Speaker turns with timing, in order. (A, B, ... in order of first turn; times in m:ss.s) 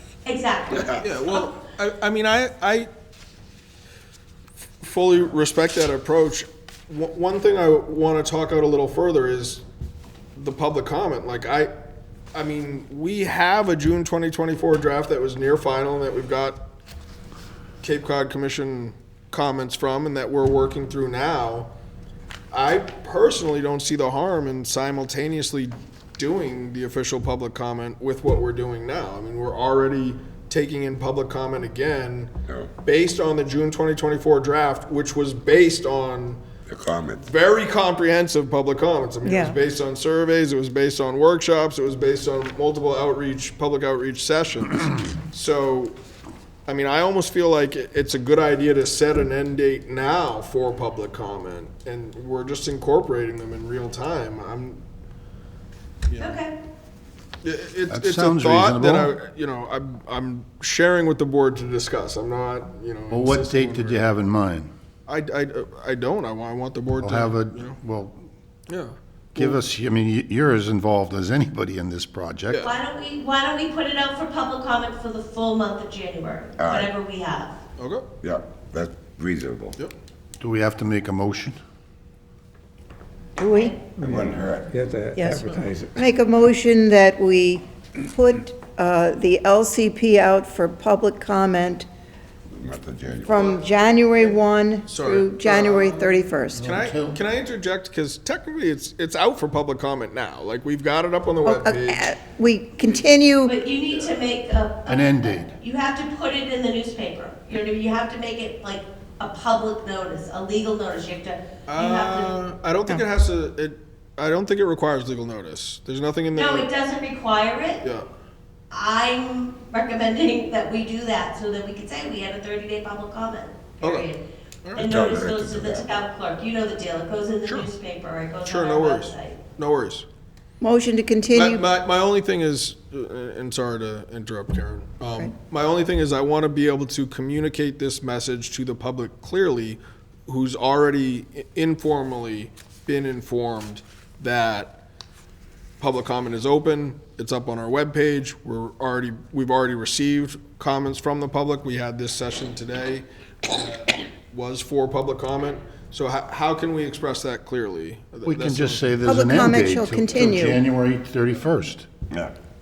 0:00.2-0:01.0 A
0:00.9-0:02.9 B
0:04.8-0:09.6 B
0:10.4-0:11.7 B
0:12.3-0:16.6 B
0:17.8-0:21.7 B
0:22.5-0:36.4 B
0:36.7-0:37.3 C
0:37.2-0:46.0 B
0:39.2-0:39.6 D
0:46.7-0:54.8 B
0:56.1-0:56.4 B
0:56.2-0:56.5 A
0:57.4-1:04.0 B
0:57.9-0:59.1 E
1:03.1-1:04.7 E
1:05.1-1:07.8 B
1:07.0-1:08.2 E
1:08.7-1:09.6 B
1:09.4-1:12.7 E
1:12.6-1:17.6 A
1:16.6-1:16.9 C
1:17.8-1:18.1 B
1:18.2-1:19.8 C
1:20.4-1:21.6 E
1:23.4-1:23.9 D
1:24.0-1:24.8 C
1:24.0-1:26.0 F
1:25.2-1:31.9 D
1:32.5-1:33.6 C
1:33.2-1:36.6 D
1:33.3-1:42.2 B
1:36.5-1:37.2 E
1:41.4-1:43.5 D
1:43.4-1:52.4 A
1:43.9-1:44.2 B
1:44.9-1:45.5 E
1:51.7-1:56.7 B
1:56.4-1:57.8 A
1:58.7-2:04.2 A
2:03.8-2:04.1 B
2:04.8-2:06.0 C
2:04.8-2:09.4 A
2:08.4-2:10.1 B
2:10.6-2:11.6 D
2:11.3-2:24.8 B
2:25.8-2:39.0 B
2:38.2-2:41.9 E
2:39.1-2:40.6 D